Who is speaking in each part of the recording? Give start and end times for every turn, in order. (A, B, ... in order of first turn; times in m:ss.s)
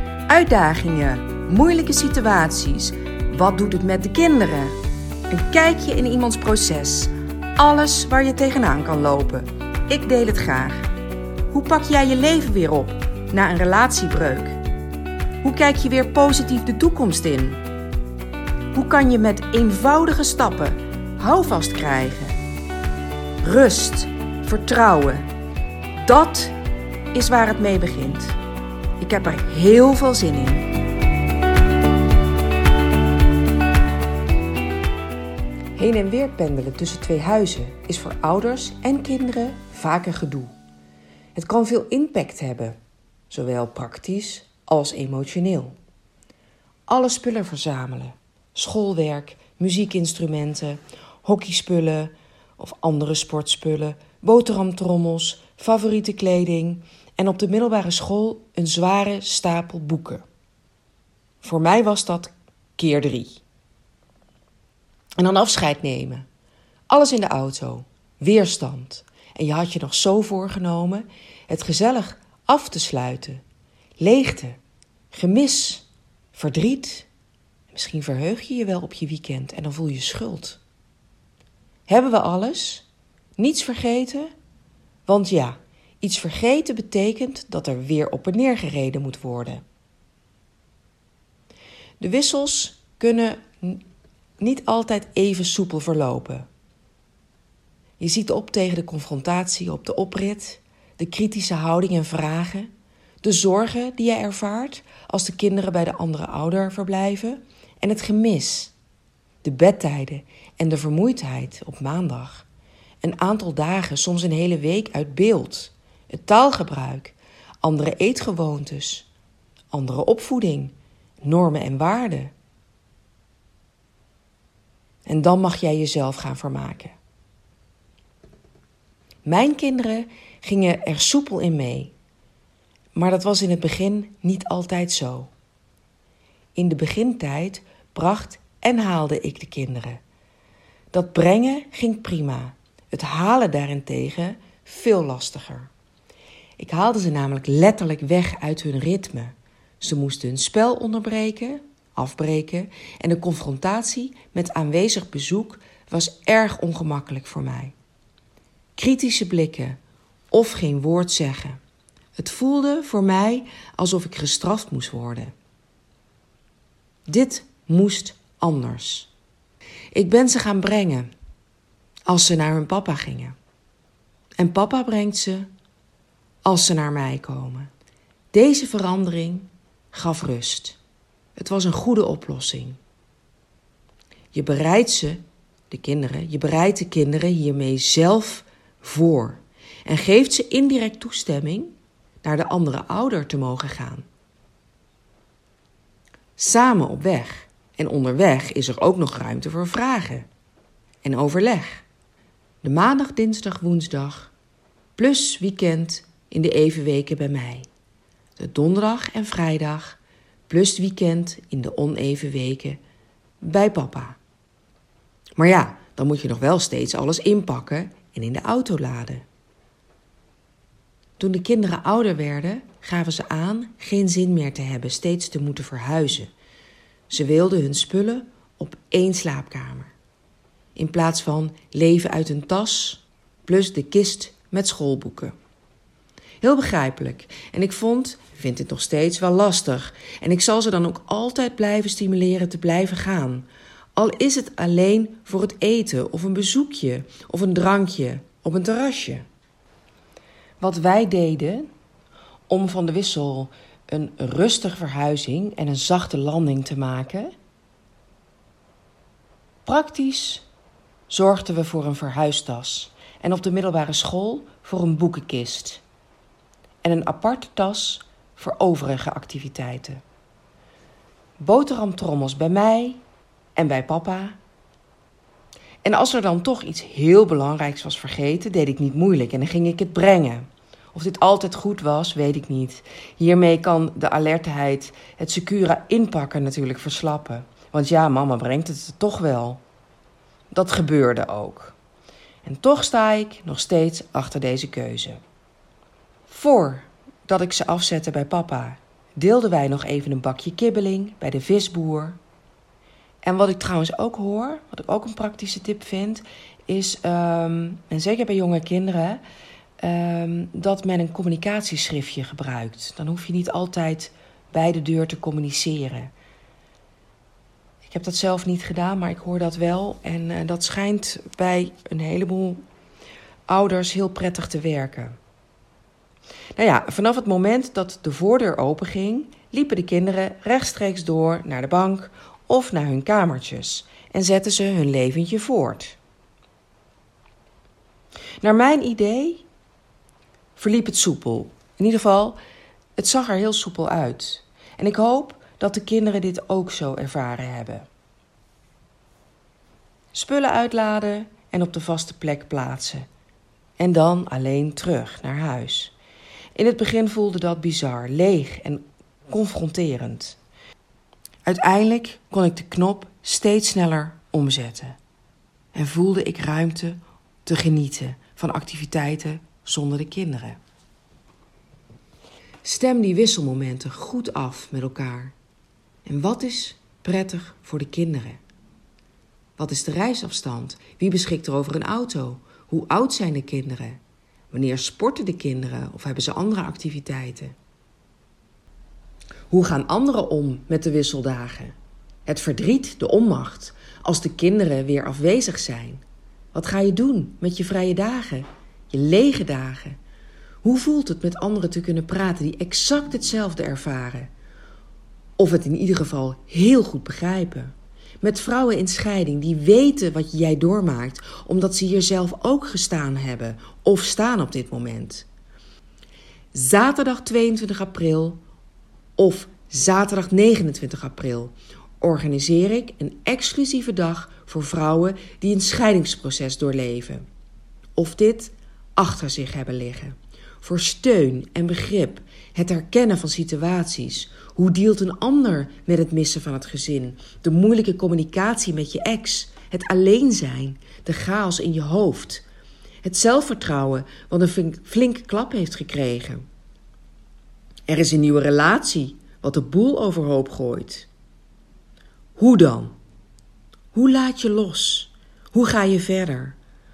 0:00.3-0:04.8 A
0:05.3-0:10.9 A
0:11.5-0:14.6 A
0:15.4-0:17.6 A
0:18.7-0:22.4 A
0:23.4-0:25.2 A
0:26.0-0:26.6 A
0:27.1-0:28.4 A
0:29.0-0:30.7 A
0:35.7-0:40.5 A
0:41.3-0:42.8 A
0:43.3-0:45.7 A
0:46.9-1:00.2 A
1:01.4-1:03.4 A
1:05.2-1:06.2 A
1:06.9-1:13.4 A
1:14.0-1:14.6 A
1:15.1-1:17.1 A
1:17.7-1:20.6 A
1:21.9-1:22.8 A
1:23.4-1:24.3 A
1:25.1-1:29.6 A
1:32.0-1:33.8 A
1:34.4-1:36.5 A
1:38.0-1:42.7 A
1:43.2-1:48.7 A
1:49.4-1:52.5 A
1:53.0-1:59.1 A
1:59.7-2:02.3 A
2:05.0-2:06.9 A
2:09.2-2:11.9 A
2:12.9-2:15.3 A
2:16.5-2:20.0 A
2:20.9-2:25.7 A
2:26.6-2:37.7 A
2:38.8-2:39.8 A
2:40.3-2:41.6 A
2:42.2-2:45.3 A
2:47.1-2:49.1 A
2:49.9-2:51.1 A
2:52.1-2:53.4 A
2:54.4-2:55.5 A
2:56.4-2:57.7 A
2:58.3-3:00.8 A
3:01.4-3:02.8 A
3:04.3-3:14.0 A
3:16.4-3:20.2 A
3:21.0-3:21.8 A
3:22.6-3:24.3 A
3:25.0-3:27.6 A
3:28.4-3:32.8 A
3:33.4-3:34.2 A
3:35.4-3:39.2 A
3:41.2-3:46.3 A
3:47.1-3:49.9 A
3:50.8-3:55.3 A
3:56.4-4:09.2 A
4:10.6-4:11.7 A
4:12.5-4:17.3 A
4:19.6-4:20.4 A
4:21.1-4:25.8 A
4:26.8-4:30.0 A
4:31.4-4:33.0 A
4:33.6-4:34.4 A
4:35.8-4:49.6 A
4:50.5-4:51.8 A
4:52.4-4:55.2 A
4:56.3-5:02.2 A
5:03.2-5:09.2 A
5:09.8-5:16.1 A
5:17.8-5:22.6 A
5:23.5-5:25.2 A
5:26.5-5:36.0 A
5:38.4-5:39.4 A
5:40.6-5:42.4 A
5:43.0-5:47.9 A
5:50.1-5:53.0 A
5:53.8-5:55.9 A
5:56.5-6:00.4 A
6:01.4-6:05.0 A
6:05.7-6:10.6 A
6:12.6-6:15.3 A
6:16.0-6:18.4 A
6:19.6-6:24.0 A
6:24.5-6:27.5 A
6:29.5-6:31.7 A
6:32.2-6:36.0 A
6:36.5-6:40.0 A
6:40.6-6:44.3 A
6:45.4-6:55.3 A
6:56.5-6:58.4 A
6:59.2-7:07.2 A
7:08.0-7:22.4 A
7:23.0-7:26.4 A
7:27.9-7:31.1 A
7:32.4-7:32.9 A
7:33.9-7:36.6 A